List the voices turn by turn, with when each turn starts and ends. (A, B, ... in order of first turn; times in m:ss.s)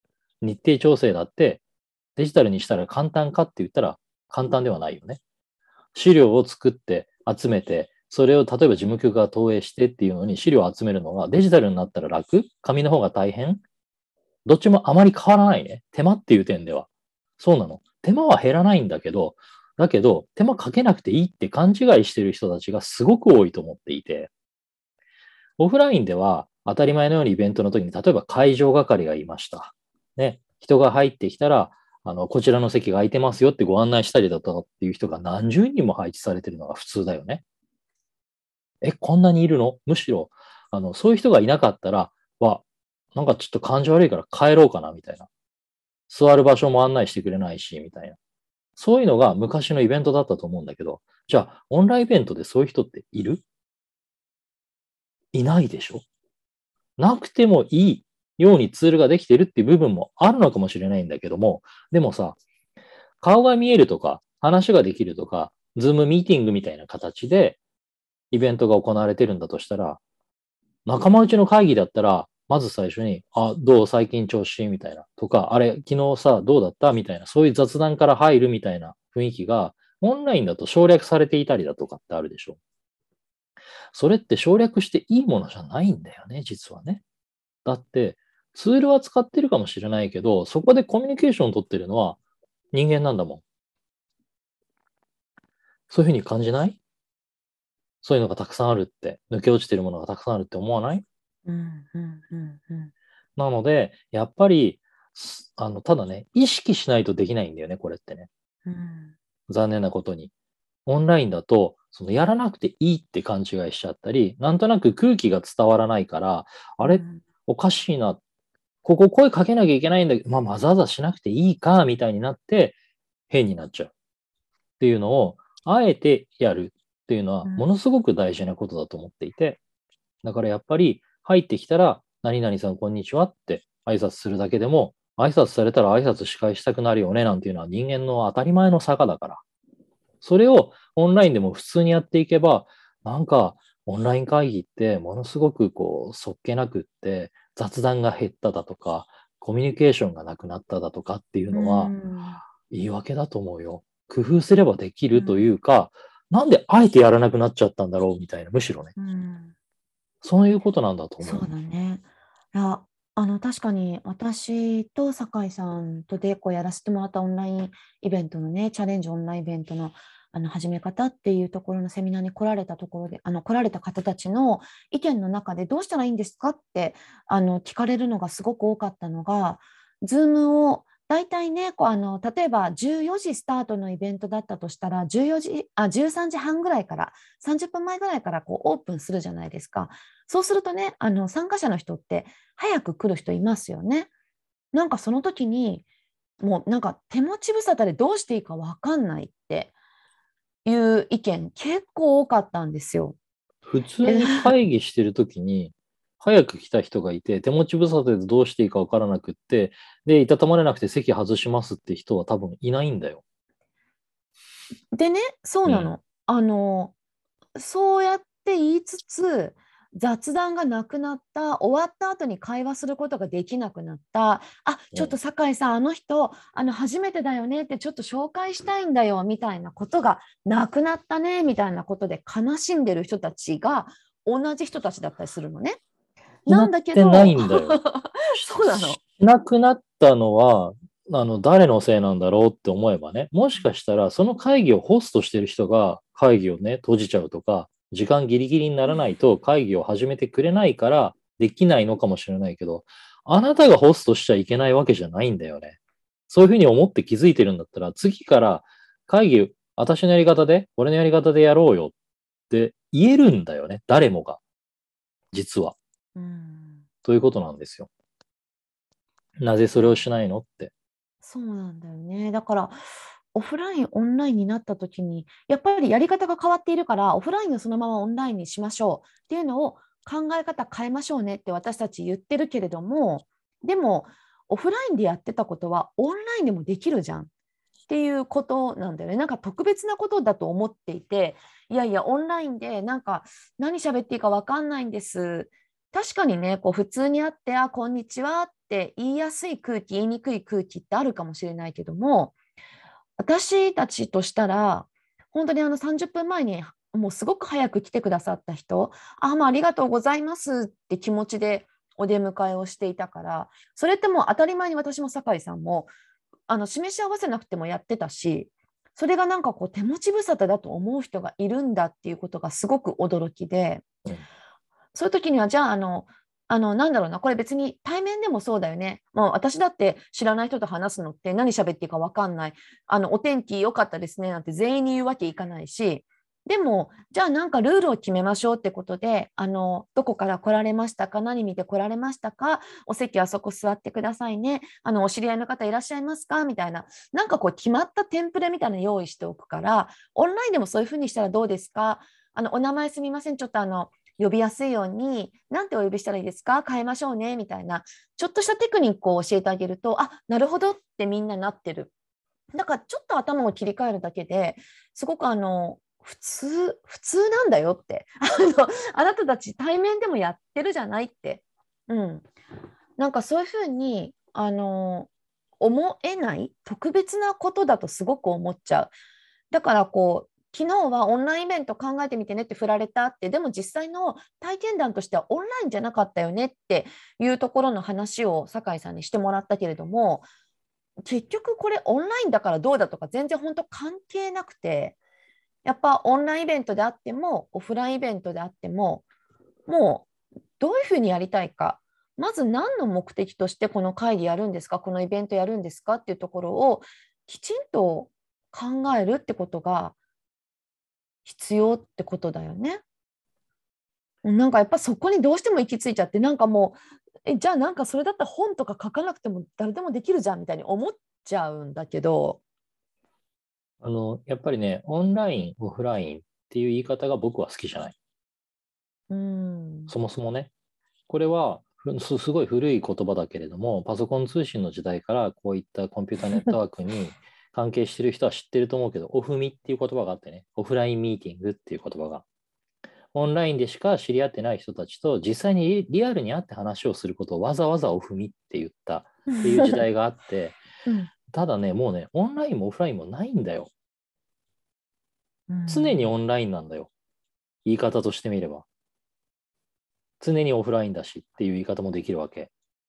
0:00.4-0:01.6 A
0:02.2-0:05.2 A
0:05.9-0:13.6 A
0:14.4-0:16.9 A
0:17.4-0:24.3 A
0:25.6-0:37.4 A
0:38.8-0:45.3 A
0:46.1-0:48.2 A
0:48.8-0:53.4 A
0:55.3-0:56.0 A
0:57.0-1:02.4 A
1:03.2-1:07.6 A
1:08.3-1:10.0 A
1:10.9-1:22.6 A
1:23.9-1:27.0 A
1:27.6-1:32.2 A
1:32.7-1:33.4 A
1:35.9-1:36.8 A
1:38.0-1:41.0 A
1:41.5-1:42.9 B
1:43.4-1:48.3 A
1:48.7-1:49.2 B
1:49.5-1:50.3 A
1:50.9-1:58.2 A
1:56.8-1:57.2 B
1:58.8-2:02.8 A
2:03.3-2:03.9 A
2:04.8-2:09.6 A
2:10.2-2:19.4 A
2:20.2-2:31.9 A
2:31.5-2:32.4 B
2:32.7-2:38.9 A
2:35.1-2:35.6 B
2:39.0-2:39.6 B
2:40.2-2:41.5 A
2:41.2-3:14.1 B
3:14.7-3:15.8 B
3:16.4-3:19.7 B
3:20.6-3:23.2 B
3:23.7-3:33.2 A
3:24.0-3:24.5 B
3:34.9-3:36.9 B
3:35.6-3:35.9 A
3:37.6-3:55.8 B
3:56.5-3:59.0 B
3:56.5-4:15.8 A
4:16.3-4:21.9 A
4:22.5-4:24.4 A
4:25.3-4:25.8 A
4:26.2-4:26.8 B
4:27.0-4:27.9 A
4:29.4-4:30.7 A
4:29.8-4:30.1 B
4:31.2-4:32.8 B
4:33.3-4:47.3 B
4:47.9-5:02.3 B
5:03.2-5:15.9 B
5:16.5-5:23.9 B
5:24.9-6:01.9 B
6:02.5-6:12.3 B
6:13.0-6:18.9 B
6:19.5-6:30.3 B
6:31.1-6:35.0 B
6:35.6-6:39.0 B
6:39.7-6:40.1 B
6:40.6-6:50.0 B
6:51.2-6:52.8 B
6:54.2-7:02.4 B
7:03.8-7:08.0 A
7:09.1-7:09.9 B
7:09.9-7:10.5 A
7:11.1-7:22.2 A
7:16.3-7:16.6 B
7:23.1-7:30.6 A
7:29.3-7:29.8 B
7:30.9-7:31.1 B
7:31.3-7:33.7 A
7:35.5-7:36.1 B
7:35.7-7:36.9 A
7:37.6-7:38.6 A
7:40.2-7:42.5 A